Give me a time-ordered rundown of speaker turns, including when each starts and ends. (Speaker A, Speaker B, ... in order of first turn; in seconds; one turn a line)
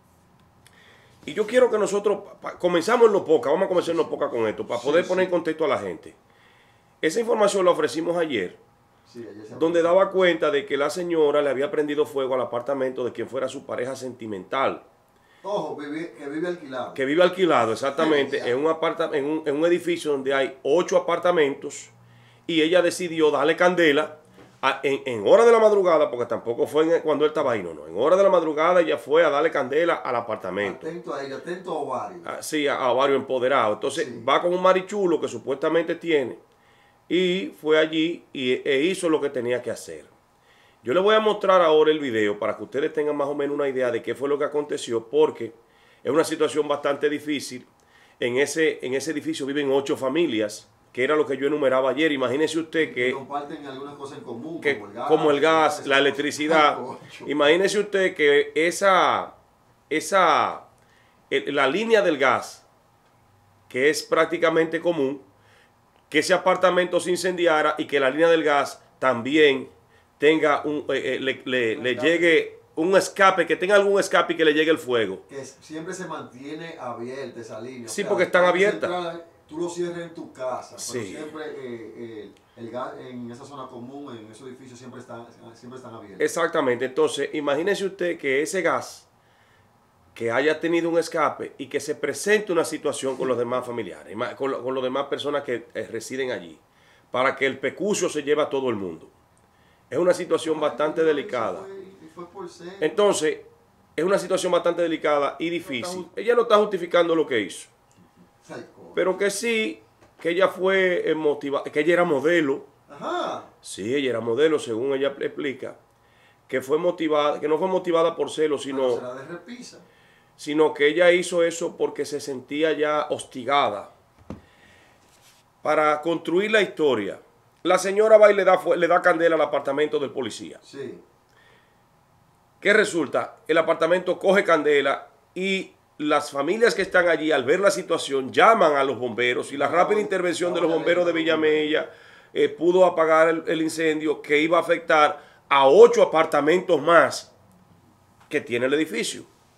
Speaker A: 1.2-6.2
Speaker B: 3.7-5.3
Speaker A: 7.0-8.6
Speaker B: 9.1-10.1
Speaker A: 9.5-14.8
Speaker B: 15.4-17.0
Speaker A: 16.9-21.9
Speaker B: 17.9-18.6
Speaker A: 22.5-30.9
Speaker B: 30.6-32.3
Speaker A: 32.2-36.4
Speaker B: 33.9-34.3
Speaker A: 37.1-40.1
Speaker A: 40.8-47.7
Speaker A: 48.2-53.2
Speaker B: 52.8-57.3
Speaker A: 54.6-59.3
Speaker A: 59.9-60.6
Speaker A: 61.3-62.6
Speaker A: 63.7-65.2
Speaker A: 66.1-75.2
Speaker B: 71.7-72.4
Speaker B: 75.3-86.3
Speaker A: 77.8-79.0
Speaker A: 80.8-81.3
Speaker A: 86.2-89.1
Speaker A: 90.1-99.1
Speaker A: 99.9-101.7
Speaker B: 100.4-103.0
Speaker A: 102.8-107.7
Speaker B: 105.6-106.1
Speaker B: 108.4-109.0
Speaker A: 108.9-112.7
Speaker B: 112.9-113.5
Speaker A: 113.6-115.8
Speaker A: 116.5-119.0
Speaker B: 118.7-119.8
Speaker A: 120.4-123.9
Speaker A: 125.6-130.6
Speaker B: 130.6-131.0
Speaker A: 132.6-147.3
Speaker B: 139.5-141.8
Speaker A: 148.3-149.3